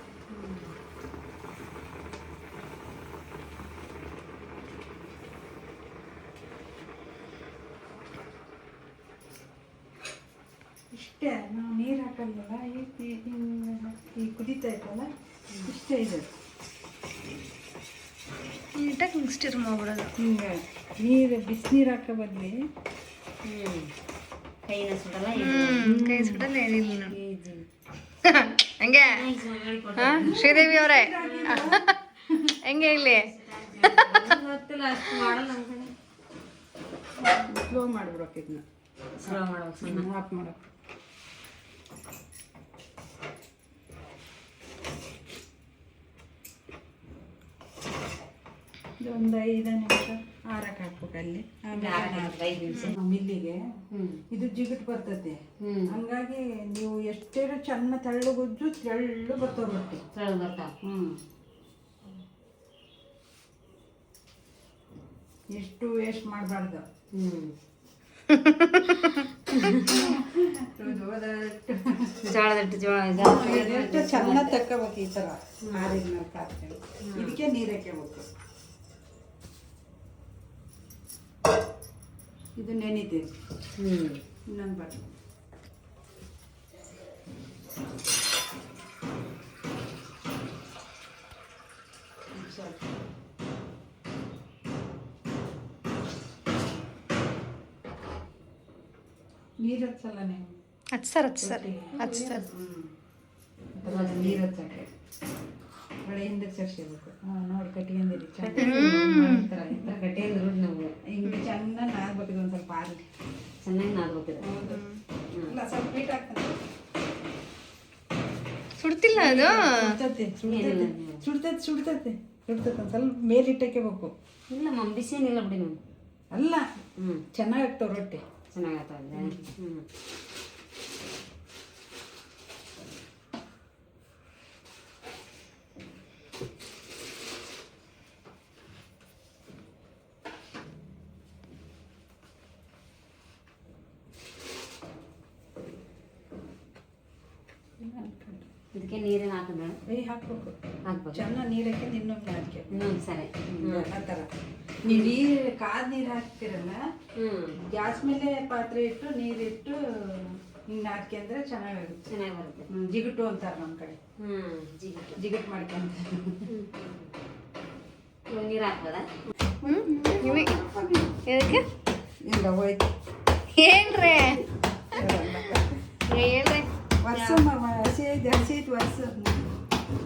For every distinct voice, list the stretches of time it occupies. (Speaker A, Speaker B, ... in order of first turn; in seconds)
Speaker A: 0.3-0.7, 23.4-23.9, 24.6-26.0, 26.9-27.6, 28.8-30.5, 31.2-31.8, 32.8-35.9, 39.2-40.1, 51.7-53.0, 53.9-54.2, 55.6-56.0, 60.1-60.7, 67.1-67.5, 69.5-70.0, 72.2-74.6, 75.7-76.0, 77.1-77.4, 83.8-84.2, 102.0-102.4, 103.8-104.4, 108.4-111.0, 113.6-114.5, 115.3-115.6, 120.5-121.2, 124.5-125.8, 127.0-127.2, 128.5-129.8, 148.7-149.8, 150.9-151.2, 152.7-154.0, 154.8-155.2, 157.2-157.6, 162.1-162.7, 164.2-165.2, 166.5-167.1, 168.3-169.1, 177.1-177.4
Speaker B: 10.9-15.1, 15.7-16.3, 20.2-22.6, 25.8-26.5, 30.2-32.5, 37.5-38.6, 39.2-40.6, 49.0-53.7, 54.3-60.0, 60.8-61.2, 65.5-66.9, 69.7-72.4, 73.2-78.3, 82.6-83.3, 84.5-85.0, 92.3-92.9, 99.6-100.6, 101.4-102.9, 103.8-104.9, 106.0-110.1, 111.1-113.1, 114.4-114.8, 115.4-116.6, 119.2-124.1, 126.3-126.7, 127.3-128.2, 129.1-129.4, 147.8-148.5, 149.9-150.6, 151.1-152.7, 153.6-154.3, 154.8-156.9, 157.6-162.0, 162.7-164.0, 165.2-166.5, 169.5-171.2, 172.2-172.9, 174.9-175.9, 177.0-179.5
Speaker C: 18.8-20.1, 25.4-27.2, 28.2-29.2, 30.0-31.9, 32.6-33.3, 33.9-34.2, 68.3-69.2, 100.9-102.5, 108.6-109.5, 114.7-115.0, 118.8-120.0, 169.7-170.6, 171.3-171.7, 173.5-174.4, 176.1-176.7